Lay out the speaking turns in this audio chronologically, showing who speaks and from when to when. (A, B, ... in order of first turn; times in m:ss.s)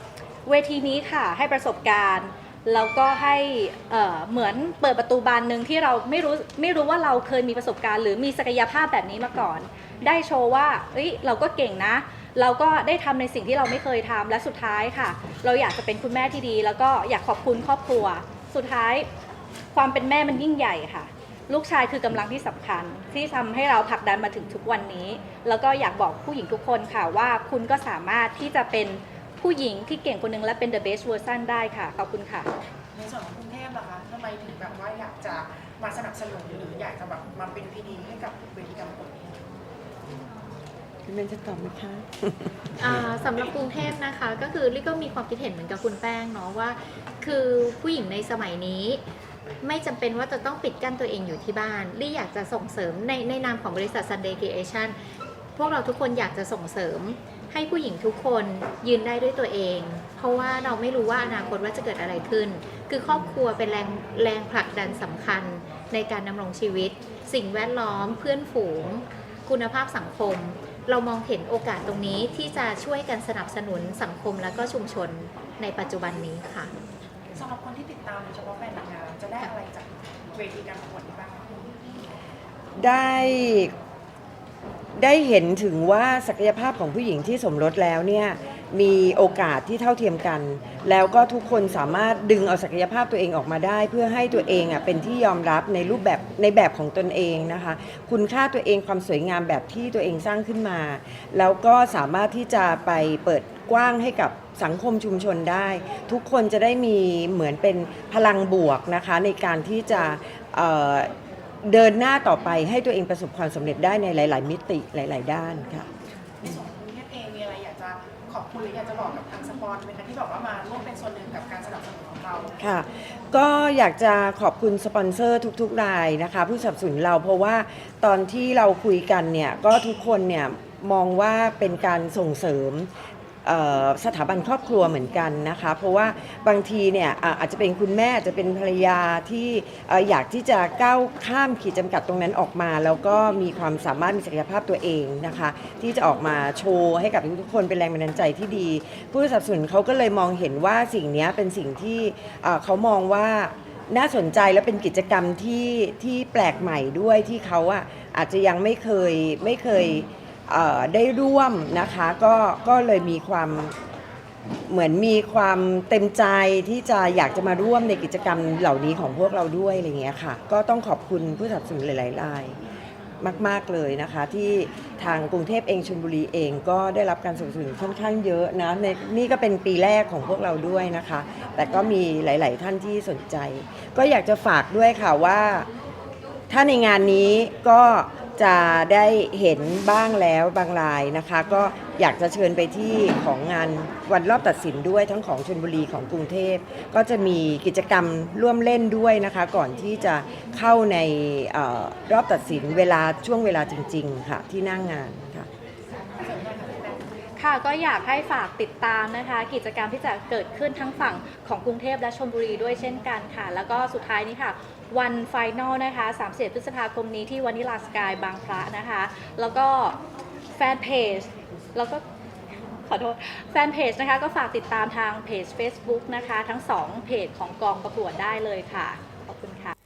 0:00.4-0:19.1 A
0:19.7-0:32.5 A
0:32.9-0:39.4 B
0:41.0-0:42.6 C
0:42.8-0:49.0 D
0:49.6-0:55.0 D
0:55.6-1:16.7 D
1:17.3-1:21.6 B
1:22.8-1:23.7 C
1:25.0-1:51.1 C
1:51.6-1:55.9 C
1:56.4-2:02.6 B
2:02.6-2:12.9 C
2:13.4-2:43.7 C
2:44.7-2:52.6 C
2:53.2-3:05.7 C
3:06.5-3:25.5 C
3:26.2-3:27.0 B
3:27.4-3:40.0 A
3:40.5-3:42.0 A
3:42.9-3:49.7 A